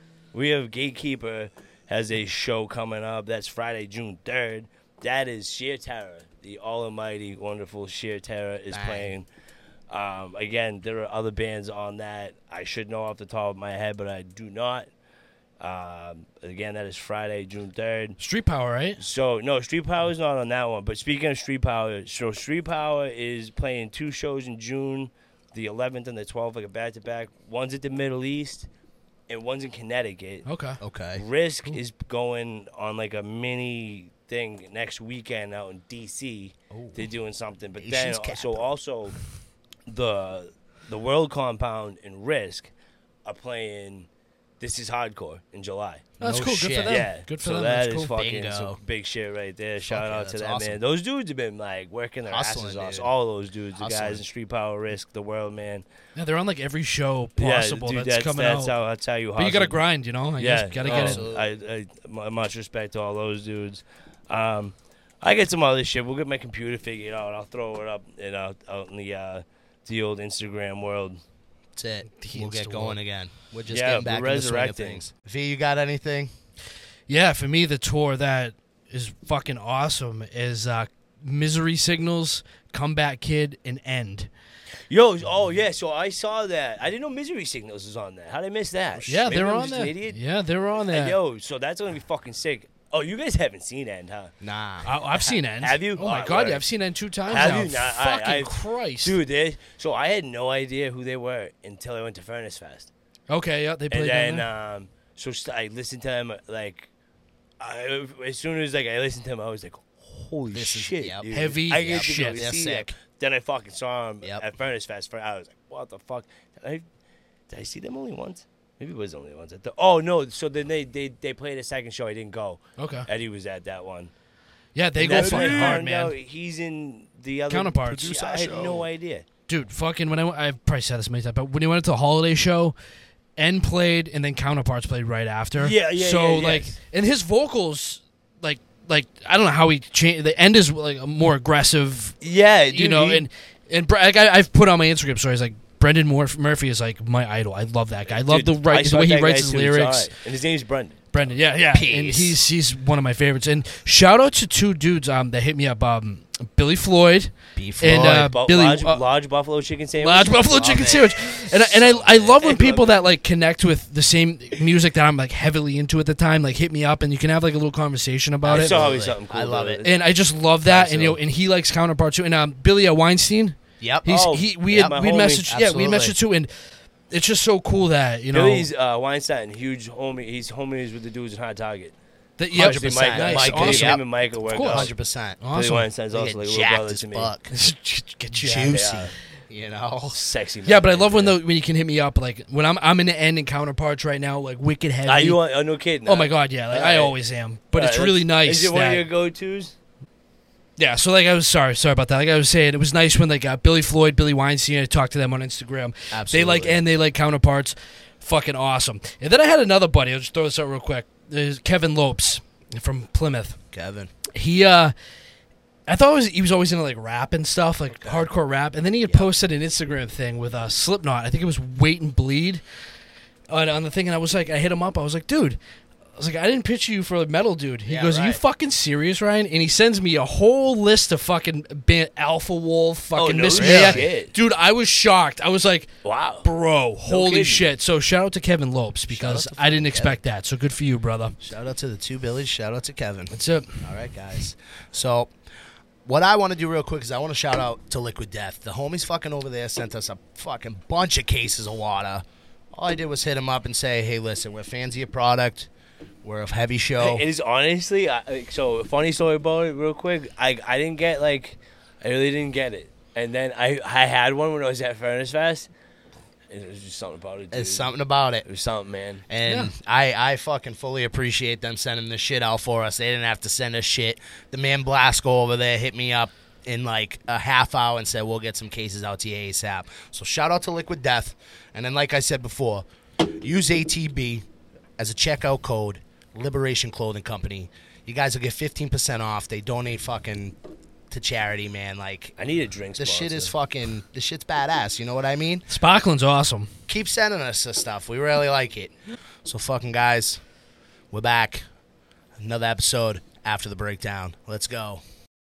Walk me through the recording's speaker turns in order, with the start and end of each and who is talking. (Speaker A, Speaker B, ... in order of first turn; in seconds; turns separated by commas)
Speaker A: 0.3-9.3, Speaker B: 8.7-9.1, Speaker A: 9.9-14.9, Speaker A: 15.6-18.2, Speaker C: 18.2-19.0, Speaker A: 19.0-28.7, Speaker A: 29.3-30.5, Speaker C: 30.5-30.8, Speaker B: 30.8-31.2, Speaker A: 31.1-39.2, Speaker B: 36.7-37.1, Speaker B: 37.8-38.7, Speaker A: 39.9-42.7, Speaker A: 43.2-44.1, Speaker A: 44.6-46.1, Speaker B: 46.2-47.1, Speaker C: 46.2-48.1, Speaker A: 46.9-55.9, Speaker B: 48.1-48.8, Speaker B: 49.9-50.8, Speaker B: 52.3-53.1, Speaker B: 53.8-54.2, Speaker C: 56.2-58.7, Speaker A: 57.4-59.8, Speaker C: 59.4-61.3, Speaker A: 60.4-71.2, Speaker B: 60.8-61.5, Speaker B: 71.8-76.3, Speaker C: 72.1-73.0, Speaker A: 73.7-75.0, Speaker C: 77.1-84.3, Speaker A: 84.9-90.2, Speaker C: 89.1-91.2, Speaker A: 90.8-94.3, Speaker B: 94.4-94.9, Speaker C: 94.8-99.2, Speaker A: 95.1-96.6, Speaker A: 97.3-102.9, Speaker C: 103.3-104.5, Speaker A: 103.9-106.9, Speaker A: 107.6-116.8, Speaker B: 110.5-111.2, Speaker C: 111.3-112.4, Speaker B: 111.8-113.0, Speaker A: 117.5-124.1, Speaker C: 122.8-123.1, Speaker C: 124.8-126.1, Speaker A: 125.0-129.2, Speaker B: 125.1-125.8, Speaker C: 127.5-128.1, Speaker B: 127.8-128.9, Speaker C: 129.5-132.8, Speaker C: 133.4-142.2, Speaker A: 135.6-136.8, Speaker A: 142.2-143.3, Speaker C: 142.7-150.1, Speaker A: 148.1-151.2, Speaker C: 151.1-159.0, Speaker B: 151.7-152.4, Speaker B: 157.6-158.3, Speaker A: 157.9-160.7, Speaker C: 160.0-168.8, Speaker B: 160.3-161.4, Speaker A: 161.7-163.0, Speaker B: 168.4-169.8, Speaker A: 168.5-169.9, Speaker C: 169.8-176.5, Speaker B: 170.7-171.2, Speaker B: 173.8-174.2, Speaker A: 174.1-175.5, Speaker B: 175.5-176.2, Speaker C: 177.1-178.7, Speaker A: 178.3-181.9, Speaker C: 182.4-184.9, Speaker A: 182.5-184.9, Speaker B: 182.5-185.4, Speaker C: 185.4-185.9, Speaker A: 185.5-187.3, Speaker B: 186.1-187.5, Speaker C: 187.5-188.7, Speaker B: 188.4-190.2, Speaker A: 188.4-189.1, Speaker A: 190.0-191.4, Speaker C: 190.7-195.4, Speaker A: 195.1-197.2, Speaker C: 196.1-199.1, Speaker A: 197.7-199.8, Speaker C: 200.8-213.6, Speaker B: 206.1-206.8, Speaker B: 213.7-214.1, Speaker C: 214.3-214.9, Speaker C: 215.9-222.6, Speaker B: 217.9-218.3, Speaker C: 223.5-225.6, Speaker C: 226.2-235.9, Speaker B: 227.9-228.4, Speaker A: 233.2-234.3, Speaker B: 233.6-234.1, Speaker A: 236.0-236.5, Speaker C: 236.4-241.4, Speaker A: 237.1-237.7, Speaker B: 239.1-240.2, Speaker B: 241.4-243.3, Speaker C: 243.3-243.8, Speaker B: 243.8-245.3, Speaker B: 246.1-255.7, Speaker B: 256.2-257.2, Speaker A: 257.0-265.7, Speaker A: 266.5-269.2, Speaker B: 267.5-268.4, Speaker B: 269.3-284.4, Speaker C: 269.5-269.7, Speaker B: 285.0-290.6, Speaker B: 291.1-292.3, Speaker A: 292.4-293.5, Speaker B: 293.0-295.7, Speaker C: 295.7-296.7, Speaker B: 296.9-300.4, Speaker B: 301.1-301.6, Speaker B: 302.4-305.0